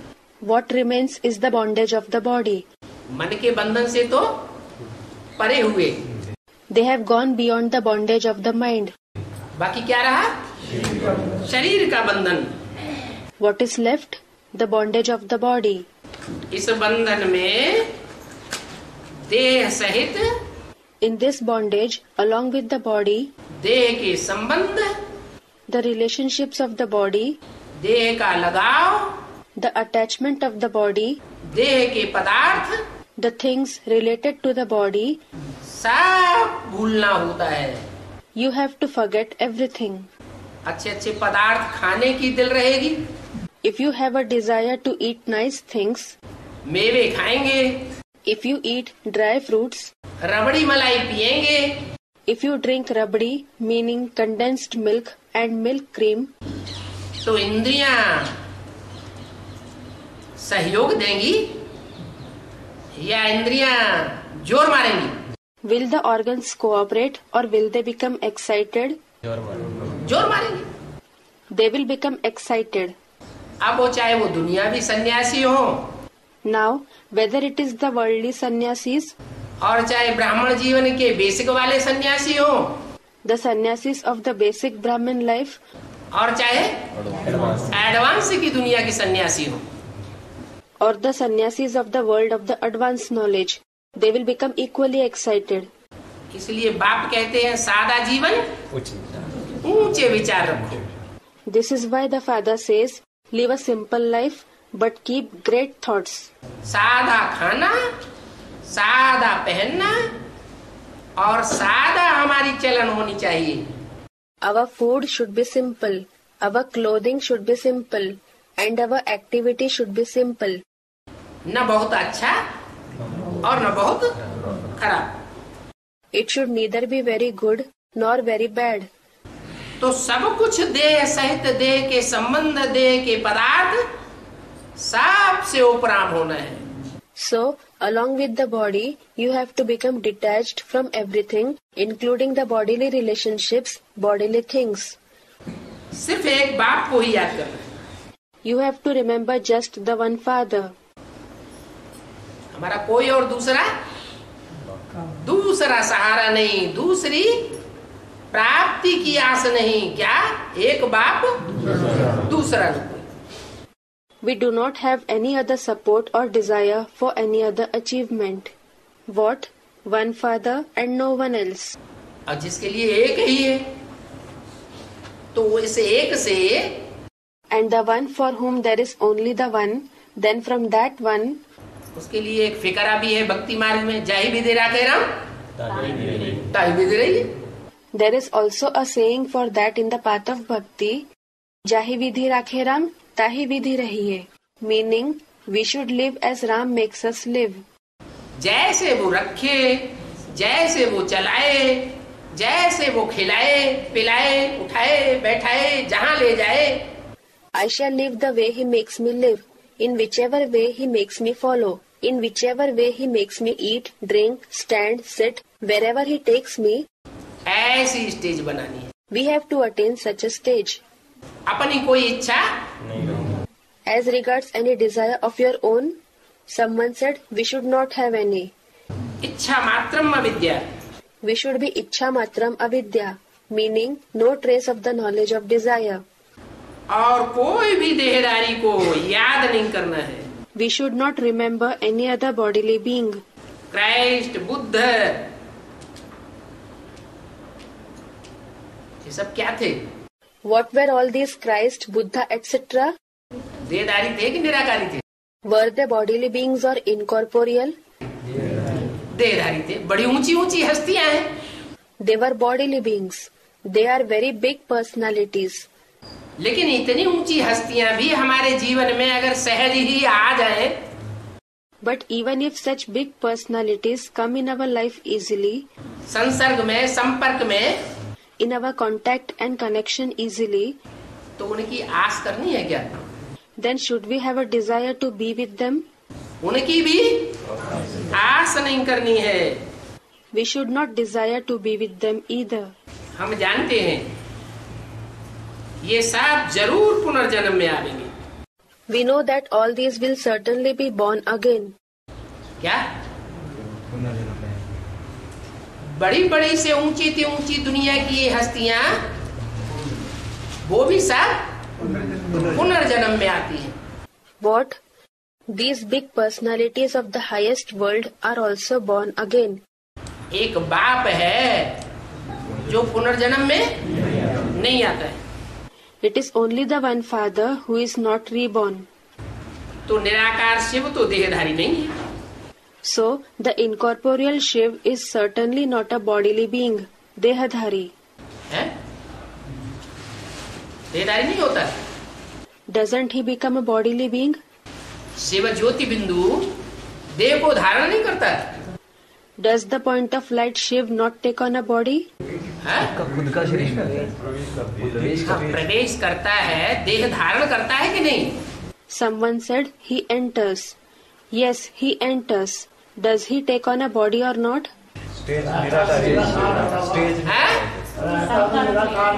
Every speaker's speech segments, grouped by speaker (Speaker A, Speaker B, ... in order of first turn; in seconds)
Speaker A: 0.4-2.7, 6.7-8.9, 13.4-15.9, 21.0-23.3, 25.7-27.4, 29.6-31.2, 33.2-35.2, 38.4-40.1, 43.6-46.2, 48.3-49.9, 52.3-56.3, 65.6-69.0, 71.5-73.0, 76.5-79.2, 83.2-85.6, 90.8-95.7, 101.5-106.3, 114.4-120.6, 126.1-128.9, 137.2-145.0, 148.4-150.7, 164.2-168.5, 169.1-171.8, 177.5-181.4, 187.9-191.1, 191.7-197.6, 207.6-216.9, 219.1-220.8, 223.9-226.0, 226.5-228.5, 231.2-236.0, 240.6-243.2, 250.5-252.9, 255.5-257.8, 262.0-265.7, 271.8-275.7, 278.4-280.8, 283.6-285.9, 290.3-292.8, 298.9-301.8, 314.4-314.8, 315.5-319.6, 326.0-328.9, 332.9-337.9, 342.7-344.4, 349.4-352.1, 358.9-360.8, 361.3-364.7
Speaker B: 3.1-4.5, 5.4-6.0, 9.6-10.3, 11.4-12.5, 16.5-17.9, 19.3-20.3, 23.6-24.9, 27.8-29.2, 31.5-32.8, 35.7-37.9, 40.7-43.0, 46.7-47.9, 50.2-51.8, 57.2-58.4, 60.4-61.6, 63.0-65.2, 70.0-70.7, 73.6-75.9, 79.6-82.8, 86.1-86.8, 87.7-89.6, 96.3-98.5, 99.6-100.8, 106.7-107.9, 108.7-110.1, 111.2-113.7, 121.5-122.4, 123.4-124.1, 124.8-125.2, 129.8-133.9, 134.8-136.6, 145.9-147.7, 152.5-153.7, 155.2-157.6, 158.3-163.1, 172.3-173.7, 175.3-176.8, 181.9-185.1, 186.2-187.3, 198.4-206.9, 217.5-218.9, 221.5-222.4, 229.2-230.7, 236.9-240.3, 243.7-245.3, 249.0-249.8, 253.7-255.0, 259.1-261.3, 266.4-270.8, 276.1-277.8, 281.4-282.9, 286.4-287.4, 288.1-289.6, 293.2-294.1, 295.8-298.1, 306.0-309.0, 310.7-311.5, 312.4-313.8, 320.3-321.8, 322.7-323.8, 324.5-325.2, 329.9-331.9, 340.9-341.7, 345.2-346.5, 347.2-348.5, 352.6-352.9, 355.3-358.4, 367.2-367.7
Speaker C: 303.9-304.7, 353.0-355.4, 365.2-368.0